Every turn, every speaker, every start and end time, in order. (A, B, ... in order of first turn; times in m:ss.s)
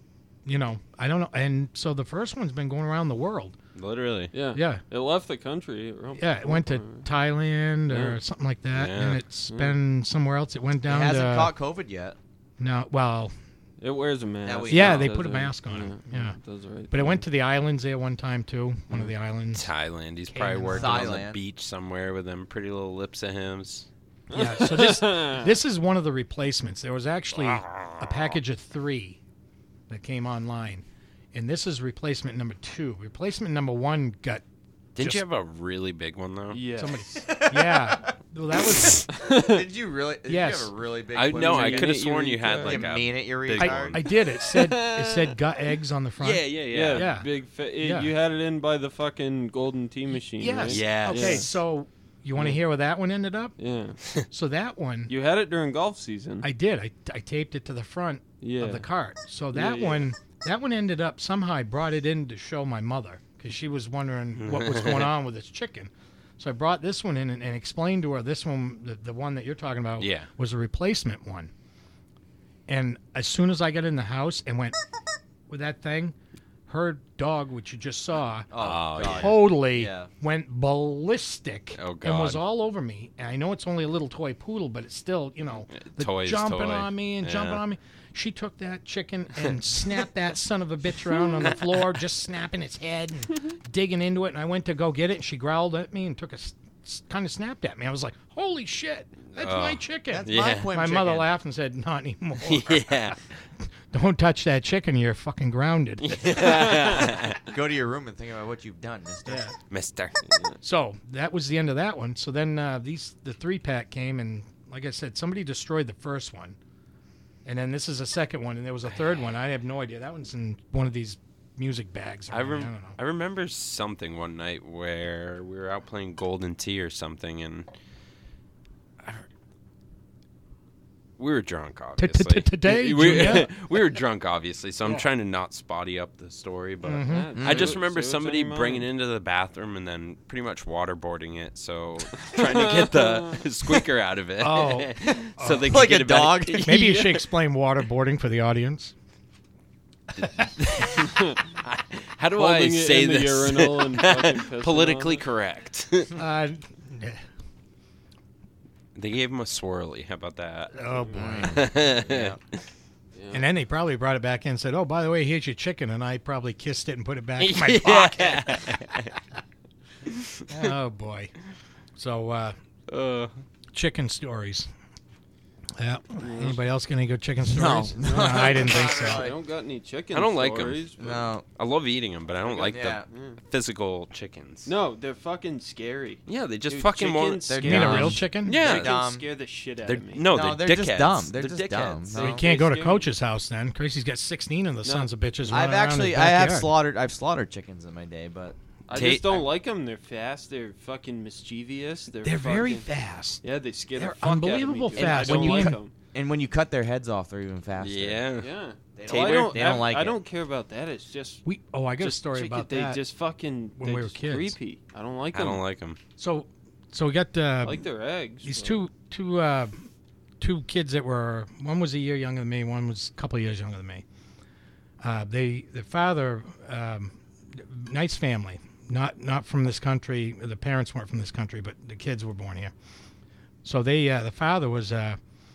0:00.4-0:03.6 A
0:03.8-0:04.3 B
0:04.3-0:07.1 C
0:04.5-0:04.8 A
0:06.2-0:11.5 A
0:07.9-0:08.2 C
0:08.7-0:09.2 B
0:09.5-0:09.8 C
0:10.9-0:12.2 D
0:12.6-0:13.3 A
0:13.8-0:17.2 C
0:14.4-0:15.1 D
0:14.7-0:16.4 A
0:16.9-0:19.7 A
0:19.5-0:23.9 B
0:20.2-0:21.2 A
0:20.7-0:21.4 D
0:24.3-0:25.5 C
0:24.3-0:29.2 A
0:27.3-0:28.2 B
0:29.9-0:34.4 A
0:35.0-0:36.6 B
0:35.0-0:35.2 A
0:36.5-0:37.0 C
0:36.7-0:39.1 A
0:37.2-0:38.1 D
0:39.1-0:39.6 C
0:39.1-0:42.0 D
0:40.3-0:40.7 A
0:41.1-0:44.0 B
0:41.3-0:42.9 C
0:42.6-0:44.0 D
0:43.5-0:47.3 A
0:44.2-0:45.4 C
0:46.2-0:47.1 B
0:46.7-0:51.5 C
0:47.8-0:48.1 A
0:50.4-0:53.5 A
0:50.7-0:51.4 B
0:52.4-0:52.6 C
0:53.6-0:54.0 C
0:54.3-0:55.1 A
0:55.1-0:56.5 C
0:56.4-1:11.5 A
0:58.4-0:58.9 C
0:59.5-1:00.1 C
1:04.3-1:05.1 B
1:10.0-1:10.3 B
1:12.7-1:14.8 A
1:15.5-1:16.1 A
1:16.7-1:43.2 A
1:18.5-1:20.1 D
1:18.6-1:19.4 B
1:21.8-1:22.4 B
1:25.7-1:27.6 B
1:39.3-1:40.7 B
1:40.1-1:41.3 D
1:42.4-1:43.2 B
1:43.9-1:46.6 A
1:46.0-1:47.4 B
1:47.4-1:49.4 D
1:49.3-1:49.6 A
1:49.7-1:50.2 B
1:50.2-1:50.6 C
1:50.6-1:56.6 A
1:57.4-2:03.0 A
2:02.3-2:07.7 B
2:11.2-2:27.2 B
2:12.0-2:13.5 A
2:13.0-2:13.4 C
2:16.8-2:17.4 A
2:17.0-2:18.9 C
2:17.4-2:17.7 D
2:22.1-2:23.4 C
2:24.4-2:25.8 A
2:25.6-2:26.8 D
2:26.6-2:28.9 A
2:30.3-2:31.1 B
2:31.0-2:31.4 C
2:31.6-2:36.1 B
2:32.3-2:35.2 C
2:36.2-2:37.2 A
2:38.9-2:40.8 B
2:40.7-2:41.7 A
2:41.1-2:42.4 D
2:41.4-2:42.4 B
2:43.1-2:43.4 C
2:43.3-2:48.8 A
2:47.4-2:49.1 B
2:50.5-2:51.3 A
2:52.0-2:52.6 A
2:52.9-2:53.3 B
2:53.7-2:54.7 A
2:55.8-2:59.3 A
2:56.2-2:56.6 C
2:57.4-2:59.4 D
2:58.0-3:01.3 C
3:00.1-3:00.9 B
3:01.0-3:01.4 D
3:01.5-3:04.7 B
3:02.4-3:03.4 C
3:02.7-3:03.1 D
3:04.6-3:10.2 C
3:06.3-3:09.0 B
3:07.5-3:09.2 D
3:07.6-3:08.6 A
3:09.8-3:12.3 B
3:10.3-3:12.4 D
3:12.1-3:13.1 C
3:12.2-3:16.8 A
3:14.8-3:15.1 C
3:15.5-3:19.5 D
3:18.9-3:22.9 C
3:18.9-3:19.3 B
3:22.2-3:25.8 A
3:23.4-3:25.9 C
3:25.0-3:28.2 D
3:27.8-3:28.5 B
3:28.4-3:31.4 C
3:29.0-3:30.2 D
3:29.0-3:29.8 B
3:31.4-3:33.0 A
3:32.0-3:35.6 C
3:33.8-3:34.5 A
3:35.3-3:36.0 B
3:36.2-3:37.8 A
3:37.6-3:38.8 C
3:38.4-3:39.9 A
3:40.4-3:44.0 A
3:45.0-3:52.7 A
3:53.6-3:55.2 A